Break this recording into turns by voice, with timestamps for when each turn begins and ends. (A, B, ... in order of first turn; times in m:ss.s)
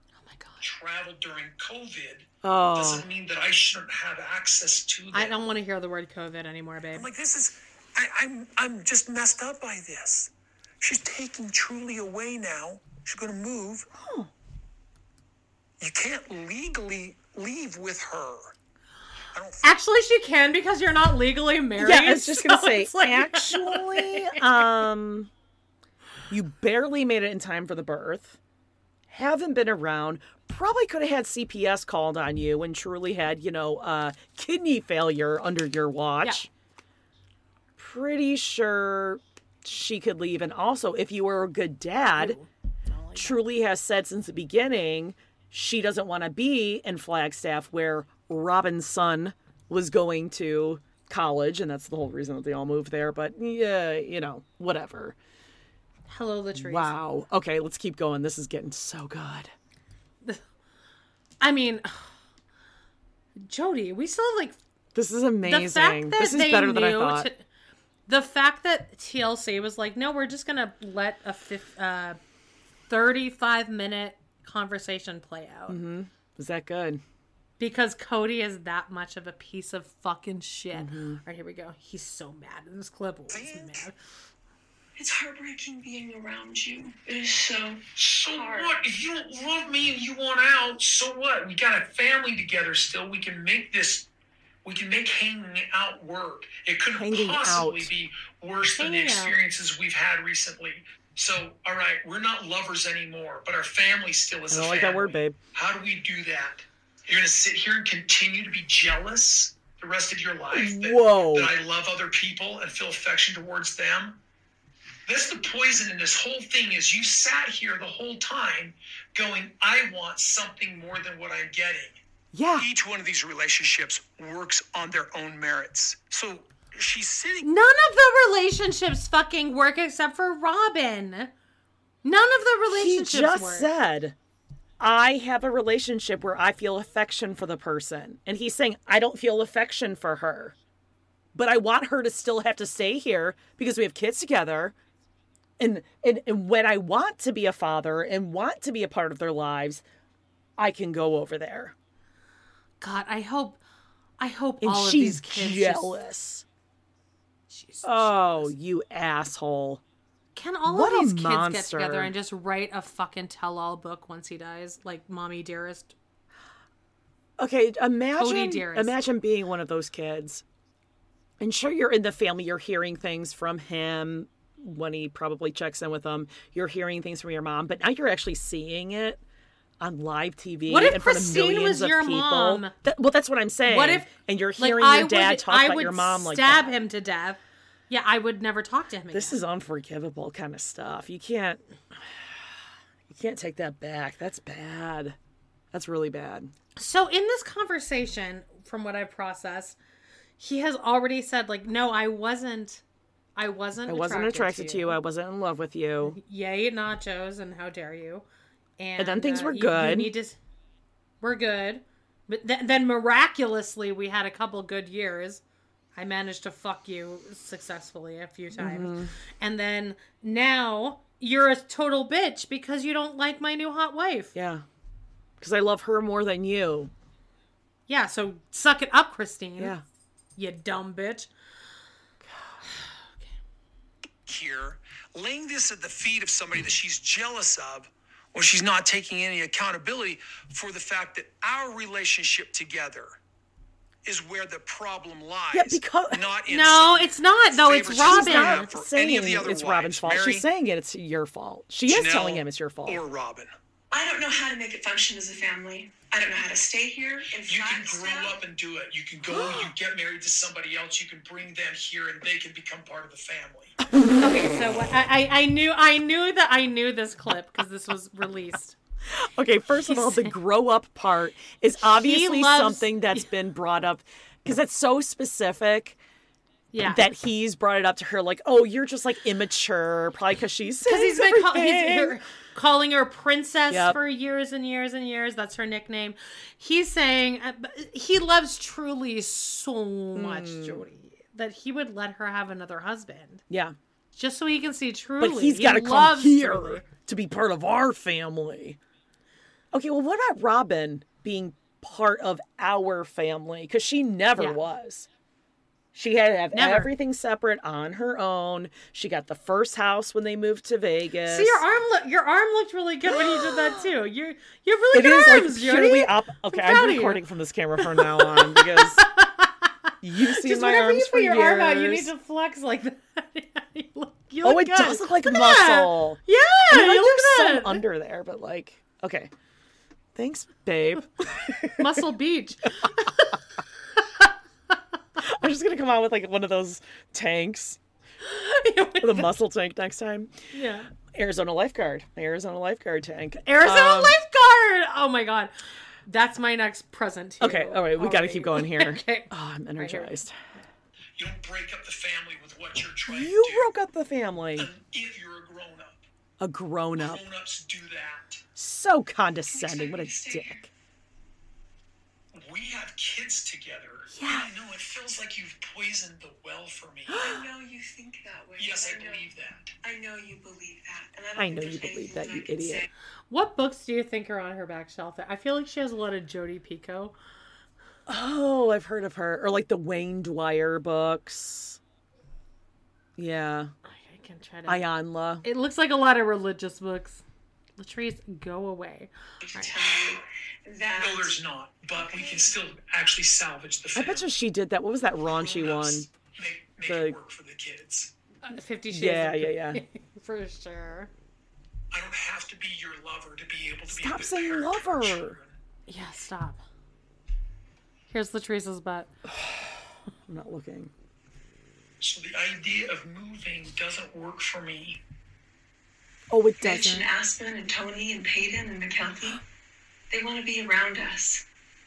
0:00.2-0:00.6 A
0:00.6-0:05.3 B
0:02.4-0:03.1 C
0:05.1-0:07.1 A
0:06.9-0:13.9 B
0:14.0-0:14.3 C
0:15.8-0:18.5 B
0:19.3-0:19.7 B
0:19.6-0:24.7 A
0:21.8-0:25.3 C
0:26.3-0:28.4 C
0:29.1-0:36.5 C
0:37.8-0:42.4 C
0:42.2-0:43.4 A
0:43.2-0:55.2 C
0:56.1-0:56.9 A
0:56.6-0:59.5 C
1:01.4-1:02.1 A
1:03.4-1:04.6 A
1:04.9-1:07.3 C
1:05.4-1:07.4 A
1:08.1-1:12.2 A
1:12.9-1:15.8 A
1:15.7-1:17.0 C
1:17.6-1:24.0 A
1:20.7-1:21.2 C
1:23.3-1:23.9 B
1:25.0-1:28.7 D
1:28.0-1:34.1 B
1:34.6-1:54.2 B
1:36.9-1:37.9 C
1:38.8-1:39.4 A
1:44.5-1:45.4 C
1:50.5-1:51.5 C
1:55.1-2:02.0 B
2:02.3-2:02.7 C
2:02.6-2:07.5 B
2:07.4-2:11.3 A
2:12.0-2:13.7 A
2:12.7-2:14.1 C
2:14.8-2:20.6 C
2:21.3-2:24.7 C
2:25.6-2:29.8 C
2:30.6-2:31.7 C
2:32.8-2:33.6 A
2:34.2-2:35.9 A
2:34.6-2:36.4 C
2:37.5-2:38.5 A
2:37.8-2:39.8 C
2:40.3-2:45.9 A
2:40.7-2:42.1 C
2:47.4-2:50.4 C
2:48.2-2:49.0 A
2:51.4-2:59.2 C
2:59.8-3:06.7 C
3:00.7-3:02.7 A
3:03.6-3:09.4 A
3:09.1-3:11.6 C
3:13.1-3:15.2 C
3:15.7-3:16.5 C
3:16.8-3:19.8 A
3:20.4-3:22.8 A
3:23.4-3:25.0 A
3:23.9-3:26.2 C
3:26.0-3:28.3 A
3:28.8-3:30.4 A
3:29.0-3:30.1 C
3:31.2-3:35.4 A
3:36.0-3:44.3 A
3:38.6-3:39.1 C
3:44.3-3:44.6 C
3:45.4-3:46.9 C
3:47.9-3:49.7 A
3:49.6-3:49.8 C
3:50.4-3:51.3 A
3:52.2-3:52.6 C
3:52.7-3:53.3 A
3:54.3-4:03.2 B
4:04.0-4:10.5 B
4:05.5-4:06.2 C
4:06.5-4:08.7 A
4:08.0-4:13.0 C
4:11.9-4:13.5 B
4:13.9-4:18.4 D
4:17.4-4:23.8 B
4:19.3-4:19.7 C
4:24.2-4:28.8 A
4:29.1-4:36.0 C
4:29.8-4:30.3 A
4:31.8-4:33.3 A
4:36.7-4:37.0 A
4:36.8-4:42.2 C
4:40.8-4:53.4 A
4:43.7-4:44.0 C
4:50.1-4:50.8 C
4:53.5-4:53.8 C
4:54.1-4:56.8 A
4:55.2-4:58.8 C
4:59.7-5:05.1 C
5:05.9-5:11.6 C
5:06.5-5:06.9 A
5:11.3-5:17.2 A
5:13.1-5:13.8 C
5:14.9-5:19.0 C
5:17.8-5:27.8 A
5:20.0-5:22.1 C
5:24.4-5:29.3 C
5:30.1-5:32.0 C
5:31.8-5:33.3 A
5:35.2-5:37.8 C
5:38.2-5:39.3 A
5:39.0-5:40.3 C
5:40.5-5:40.9 A
5:41.1-5:44.2 C
5:43.4-5:45.5 A
5:46.0-5:50.1 A
5:47.4-5:50.3 C
5:51.2-5:53.7 B
5:53.1-5:54.7 C
5:54.6-5:56.0 B
5:56.4-5:57.2 C
5:57.0-5:58.4 B
5:58.6-6:00.6 C
5:59.5-6:00.6 D
6:02.3-6:07.3 B
6:04.1-6:04.5 C
6:07.1-6:07.4 C
6:07.1-6:09.3 D
6:08.6-6:09.7 B
6:09.8-6:12.9 D
6:11.4-6:12.8 C
6:13.3-6:17.1 A
6:18.1-6:21.8 C
6:23.2-6:23.7 C
6:23.8-6:24.9 A
6:24.7-6:25.4 C
6:25.4-6:27.2 A
6:27.8-6:29.7 A
6:29.5-6:31.4 D
6:30.9-6:34.3 B
6:31.9-6:32.5 D
6:34.0-6:36.1 C
6:35.3-6:38.1 B
6:36.8-6:37.2 C
6:38.4-6:41.1 A
6:38.9-6:39.8 C
6:41.9-6:45.6 B
6:43.9-6:45.4 C
6:45.9-6:46.6 A
6:48.1-6:49.1 A
6:49.3-6:49.7 C
6:50.2-6:50.9 C
6:52.0-6:55.0 B
6:56.3-6:57.1 C
6:56.6-6:59.4 D
7:00.1-7:01.4 D